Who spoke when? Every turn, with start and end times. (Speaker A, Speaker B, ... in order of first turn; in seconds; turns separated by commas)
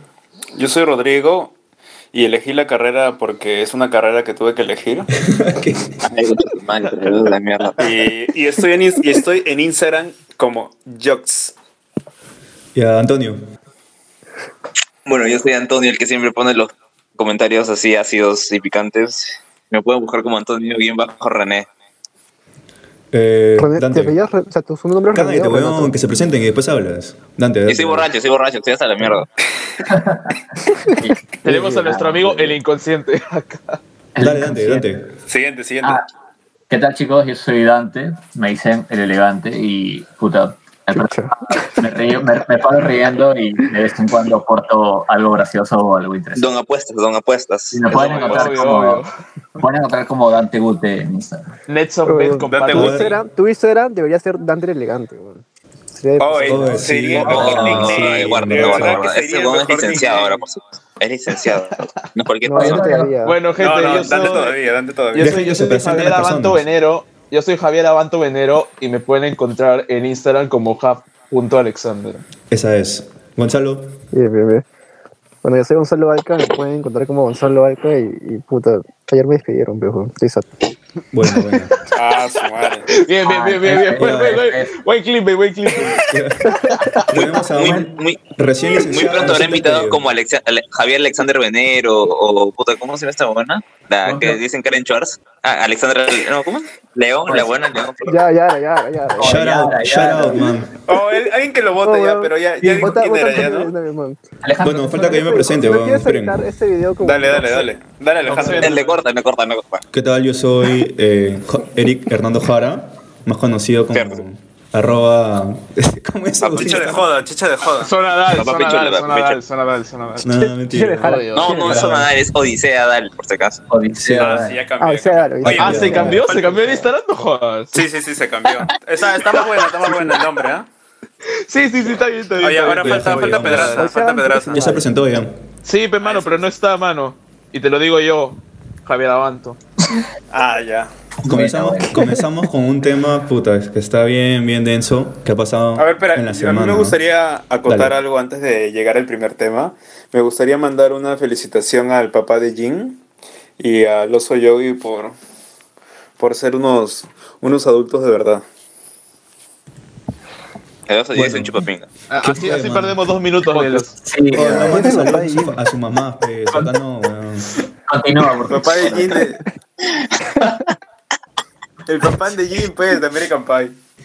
Speaker A: 0.5-1.5, Speaker A: 2.1-5.1, Speaker B: 5.2-6.0, Speaker C: 6.0-8.0, Speaker A: 7.8-11.5, Speaker B: 12.7-13.4, Speaker C: 15.1-21.7, Speaker B: 23.1-24.1, Speaker D: 23.6-25.9, Speaker B: 25.1-28.1, Speaker C: 27.7-29.3, Speaker E: 29.9-32.6, Speaker F: 31.4-33.8, Speaker D: 31.5-31.8, Speaker E: 34.1-34.9, Speaker B: 34.2-35.1, Speaker A: 35.3-36.0, Speaker E: 36.7-46.5, Speaker D: 40.9-41.3, Speaker C: 46.3-48.0, Speaker E: 47.7-49.0, Speaker F: 47.9-49.1, Speaker E: 49.6-51.5, Speaker F: 51.7-53.2, Speaker D: 52.0-56.9, Speaker A: 52.5-52.9, Speaker B: 52.7-53.1, Speaker A: 56.2-60.4, Speaker B: 56.4-59.0, Speaker C: 57.2-63.0, Speaker F: 61.5-61.9, Speaker D: 62.4-63.4, Speaker E: 62.5-63.1, Speaker F: 63.2-72.2, Speaker A: 63.6-65.4, Speaker B: 65.1-66.6, Speaker B: 72.5-74.0, Speaker D: 74.1-74.6, Speaker D: 75.4-80.5, Speaker B: 81.1-81.7, Speaker A: 82.0-82.9, Speaker F: 82.9-86.0, Speaker E: 83.2-84.7, Speaker B: 83.9-84.5, Speaker B: 85.8-90.0, Speaker D: 86.5-87.0, Speaker F: 86.7-87.1, Speaker C: 87.1-88.2, Speaker C: 88.8-98.2, Speaker E: 97.2-97.9, Speaker D: 98.0-99.6, Speaker E: 99.2-100.6, Speaker B: 99.2-100.7, Speaker A: 100.9-103.7, Speaker D: 101.8-104.2, Speaker E: 104.4-104.9, Speaker B: 104.6-106.4, Speaker D: 104.8-107.7, Speaker A: 107.0-108.9, Speaker F: 108.2-108.9, Speaker C: 108.5-109.8, Speaker B: 109.9-117.0, Speaker C: 113.9-114.2, Speaker C: 116.4-117.0, Speaker A: 116.5-117.9, Speaker F: 117.7-120.3, Speaker C: 118.3-119.4, Speaker B: 120.2-122.1, Speaker D: 120.4-121.8, Speaker F: 121.0-121.8, Speaker C: 121.3-123.6, Speaker E: 123.7-124.7, Speaker A: 124.1-126.9, Speaker D: 124.8-126.2, Speaker B: 125.4-126.3, Speaker F: 125.5-127.8, Speaker A: 127.7-130.7, Speaker F: 131.5-133.8, Speaker A: 132.4-134.7, Speaker B: 132.8-133.8, Speaker D: 133.7-134.8, Speaker B: 134.5-135.4, Speaker F: 135.6-139.6, Speaker A: 136.0-136.4, Speaker A: 140.3-140.9, Speaker E: 141.2-142.1, Speaker B: 141.2-147.0, Speaker A: 145.8-153.0, Speaker B: 147.7-148.0, Speaker A: 153.6-155.2, Speaker A: 156.2-158.4, Speaker C: 160.9-161.9, Speaker B: 161.1-161.6, Speaker F: 162.1-164.0, Speaker B: 162.2-163.0, Speaker E: 164.0-165.0, Speaker B: 164.3-167.6, Speaker D: 164.4-165.6, Speaker E: 167.9-169.3, Speaker A: 168.4-169.4, Speaker A: 171.8-173.8